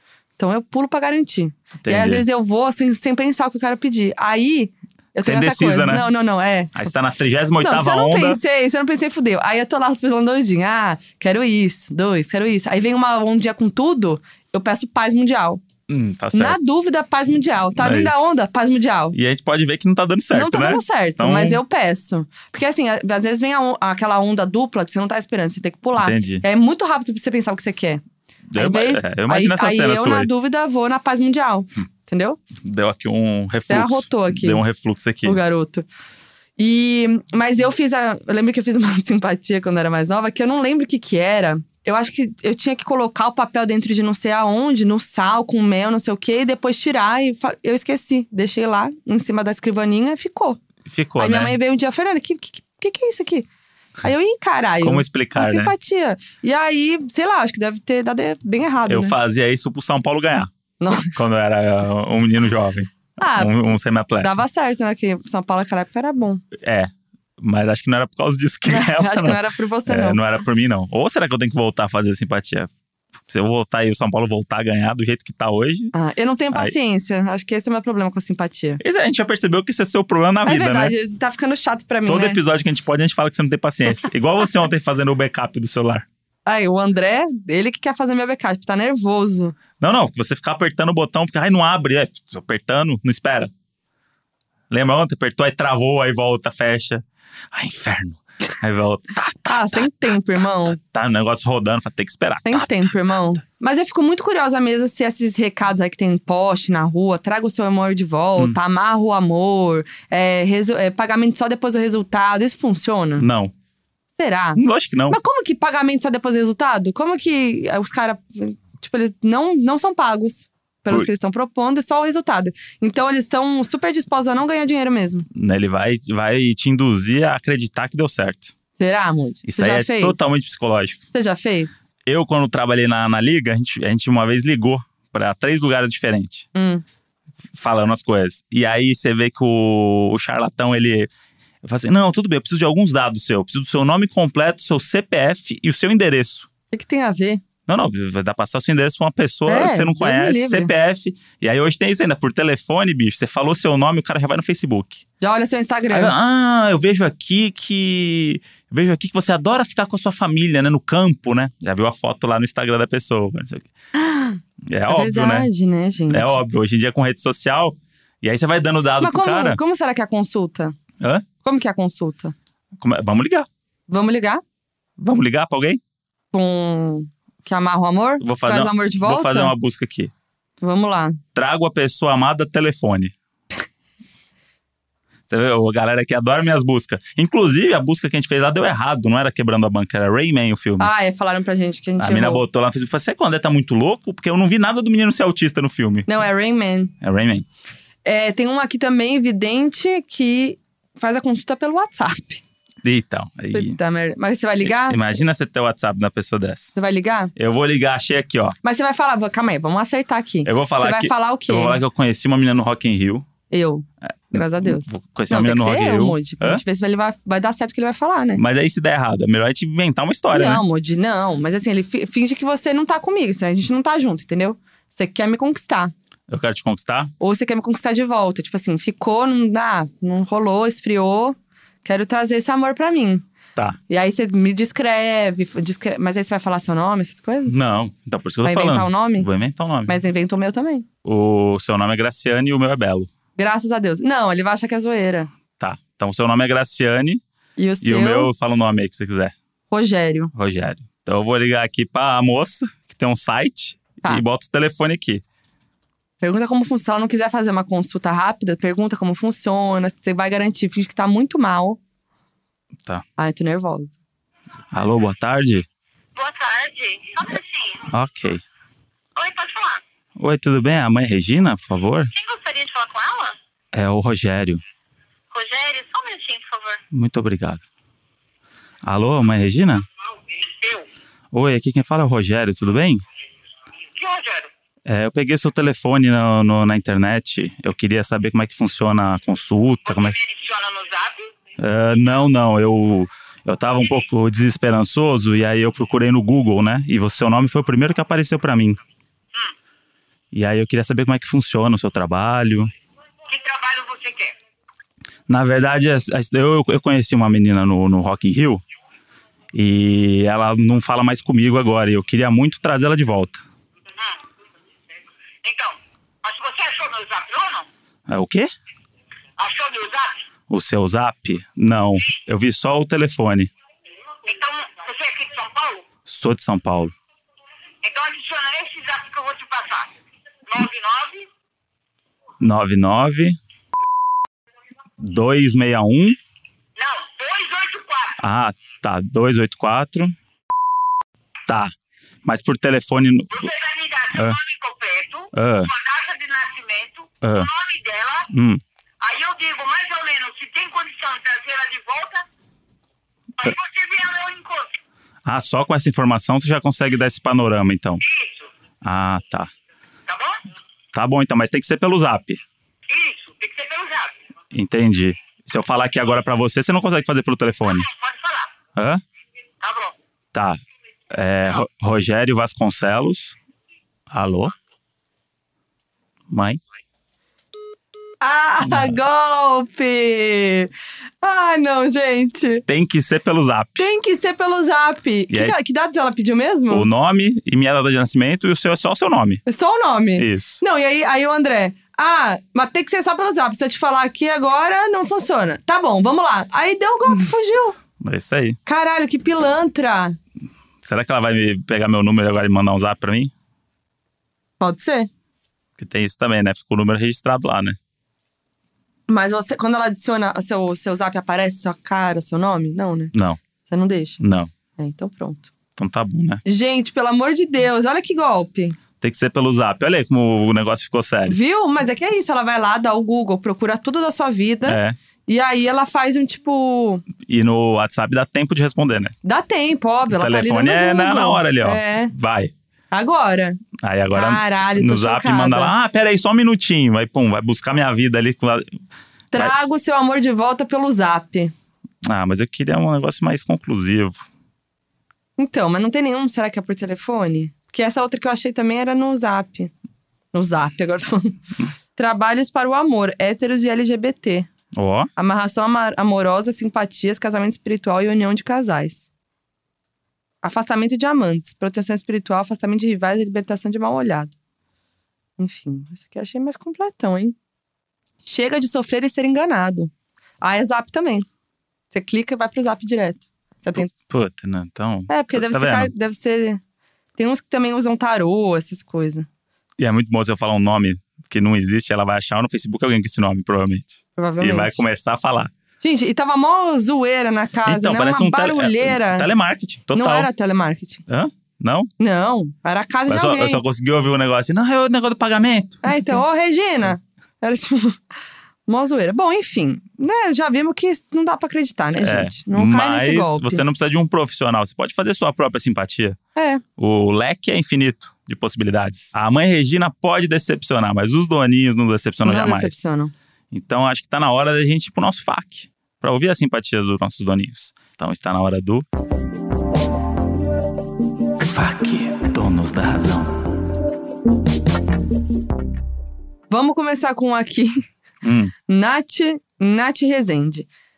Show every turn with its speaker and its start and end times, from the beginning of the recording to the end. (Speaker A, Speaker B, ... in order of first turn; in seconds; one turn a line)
Speaker A: 0.4-6.9
Speaker B: 1.8-2.2
Speaker B: 5.2-6.1
Speaker B: 6.8-8.4
Speaker A: 7.6-15.6
Speaker B: 15.9-16.6
Speaker A: 16.3-19.1
Speaker B: 17.8-18.3
Speaker B: 19.1-21.6
Speaker A: 20.3-28.0
Speaker B: 26.0-26.4
Speaker B: 28.5-30.3
Speaker A: 28.6-32.4
Speaker B: 32.6-35.4
Speaker A: 33.7-34.6
Speaker A: 35.2-35.9
Speaker A: 36.6-50.6
Speaker B: 50.9-51.6
Speaker A: 51.2-53.5
Speaker A: 54.0-59.2
Speaker B: 54.8-55.7
Speaker B: 58.9-60.5
Speaker A: 60.8-61.1
Speaker B: 61.1-64.3
Speaker A: 63.2-66.4
Speaker B: 66.6-72.7
Speaker A: 68.7-70.2
Speaker B: 73.3-75.9
Speaker A: 75.9-78.8
Speaker B: 78.8-81.0
Speaker A: 80.5-82.4
Speaker B: 82.1-86.1
Speaker A: 86.5-89.6
Speaker B: 89.8-93.5
Speaker B: 94.7-100.1
Speaker A: 99.5-100.8
Speaker B: 100.6-103.2
Speaker A: 102.5-113.3
Speaker B: 113.2-113.5
Speaker A: 114.2-125.3
Speaker B: 114.6-115.2
Speaker B: 125.3-128.5
Speaker A: 128.8-130.2
Speaker B: 129.4-131.0
Speaker A: 131.1-131.8
Speaker B: 132.1-136.5
Speaker A: 136.6-136.8
Speaker B: 137.6-141.1
Speaker B: 141.6-146.5
Speaker A: 146.7-147.4
Speaker B: 147.7-155.0
Speaker A: 149.5-150.7
Speaker A: 155.2-156.1
Speaker B: 155.9-163.7
Speaker A: 164.0-166.4
Speaker B: 164.7-165.5
Speaker B: 166.1-169.6
Speaker A: 169.0-170.8
Speaker B: 171.0-171.3
Speaker A: 171.4-172.3
Speaker B: 172.8-173.5
Speaker A: 173.9-174.4
Speaker B: 175.0-175.8
Speaker A: 176.3-179.5
Speaker B: 178.2-180.1
Speaker A: 180.6-181.2
Speaker B: 181.3-183.1
Speaker B: 185.3-190.9
Speaker A: 190.8-192.4
Speaker B: 192.0-196.1
Speaker A: 196.1-196.9
Speaker B: 197.0-197.5
Speaker A: 198.0-202.4
Speaker B: 202.8-203.8
Speaker A: 203.5-205.0
Speaker B: 204.6-206.8
Speaker A: 206.8-207.3
Speaker B: 207.4-208.6
Speaker A: 208.6-211.8
Speaker B: 210.4-213.3
Speaker A: 213.5-218.4
Speaker B: 214.3-216.6
Speaker B: 218.4-220.6
Speaker A: 220.3-225.9
Speaker B: 226.3-227.1
Speaker A: 227.2-233.2
Speaker A: 233.9-237.6
Speaker B: 237.5-239.9
Speaker A: 238.4-239.3
Speaker A: 239.9-240.9
Speaker B: 241.0-243.1
Speaker A: 243.4-245.3
Speaker B: 245.6-247.2
Speaker A: 247.6-248.3
Speaker B: 247.8-249.3
Speaker A: 249.7-250.3
Speaker B: 250.3-255.2
Speaker A: 256.2-261.8
Speaker A: 263.2-263.9
Speaker B: 264.7-265.7
Speaker C: 266.2-267.9
Speaker B: 267.9-268.4
Speaker C: 269.2-269.8
Speaker B: 270.2-272.1
Speaker C: 272.1-273.4
Speaker B: 273.7-274.6
Speaker C: 275.3-276.8
Speaker B: 276.9-277.6
Speaker B: 278.8-279.9
Speaker C: 280.3-280.9
Speaker B: 281.3-283.0
Speaker C: 284.0-284.5
Speaker B: 284.9-290.2
Speaker C: 289.9-291.3
Speaker B: 291.6-298.8
Speaker B: 300.3-302.7
Speaker C: 303.3-304.3
Speaker B: 305.3-308.6
Speaker B: 309.5-313.4
Speaker C: 315.4-317.7
Speaker B: 318.1-318.5
Speaker C: 319.4-320.2
Speaker B: 320.5-323.5
Speaker C: 324.2-325.8
Speaker B: 326.1-326.9
Speaker C: 327.8-329.9
Speaker C: 330.5-331.3
Speaker B: 332.4-333.4
Speaker B: 335.0-336.2
Speaker C: 336.8-338.2
Speaker B: 338.2-340.1
Speaker B: 341.5-341.7
Speaker B: 342.2-343.5
Speaker C: 343.3-348.3
Speaker B: 345.3-345.7
Speaker B: 347.2-347.5
Speaker B: 348.3-348.6
Speaker C: 349.0-352.2
Speaker C: 353.4-354.7
Speaker B: 355.3-358.0
Speaker C: 358.0-358.5
Speaker B: 358.8-359.5
Speaker C: 360.1-360.4
Speaker B: 360.9-362.4
Speaker C: 362.9-364.2
Speaker B: 364.5-367.9
Speaker C: 367.7-368.5
Speaker B: 368.8-369.0
Speaker C: 369.6-369.9
Speaker B: 370.3-370.6
Speaker B: 371.1-373.4
Speaker B: 374.1-374.5
Speaker B: 376.3-376.6
Speaker A: 378.2-382.6
Speaker B: 378.6-378.9
Speaker B: 382.7-383.9
Speaker A: 383.8-386.9
Speaker B: 385.3-385.6
Speaker B: 386.7-389.4
Speaker A: 389.5-397.8
Speaker B: 390.2-390.6
Speaker B: 398.0-398.6
Speaker A: 398.7-400.2
Speaker B: 400.8-403.3
Speaker A: 404.6-405.1
Speaker B: 405.8-407.8
Speaker A: 409.1-414.2
Speaker B: 413.1-413.4
Speaker B: 414.2-414.5
Speaker A: 414.8-415.5
Speaker B: 415.8-416.4
Speaker A: 416.4-418.8
Speaker B: 419.0-421.4
Speaker A: 421.3-427.1
Speaker B: 424.7-425.0
Speaker B: 427.2-429.1
Speaker A: 429.2-432.1
Speaker B: 430.1-432.5
Speaker A: 432.9-433.6
Speaker B: 433.8-438.7
Speaker A: 434.1-435.7
Speaker A: 439.3-441.5
Speaker B: 442.1-444.2
Speaker A: 445.4-449.7
Speaker A: 450.3-451.4
Speaker A: 451.9-454.5
Speaker B: 454.8-455.1
Speaker A: 455.2-459.1
Speaker A: 460.4-464.3
Speaker A: 465.4-467.4
Speaker A: 468.2-471.3
Speaker A: 471.9-473.9
Speaker B: 473.8-475.9
Speaker A: 475.1-476.6
Speaker A: 477.2-479.3
Speaker B: 479.8-485.5
Speaker A: 484.2-484.8
Speaker A: 485.8-489.3
Speaker B: 487.7-490.3
Speaker A: 489.9-491.0
Speaker B: 491.1-491.9
Speaker A: 492.0-493.6
Speaker B: 493.1-496.2
Speaker A: 495.8-498.0
Speaker A: 498.7-503.6
Speaker B: 501.9-506.2
Speaker A: 506.4-506.6
Speaker B: 506.8-512.9
Speaker A: 512.2-513.1
Speaker B: 513.5-518.9
Speaker B: 521.4-523.5
Speaker A: 526.5-527.8
Speaker B: 528.2-528.5
Speaker A: 528.7-530.7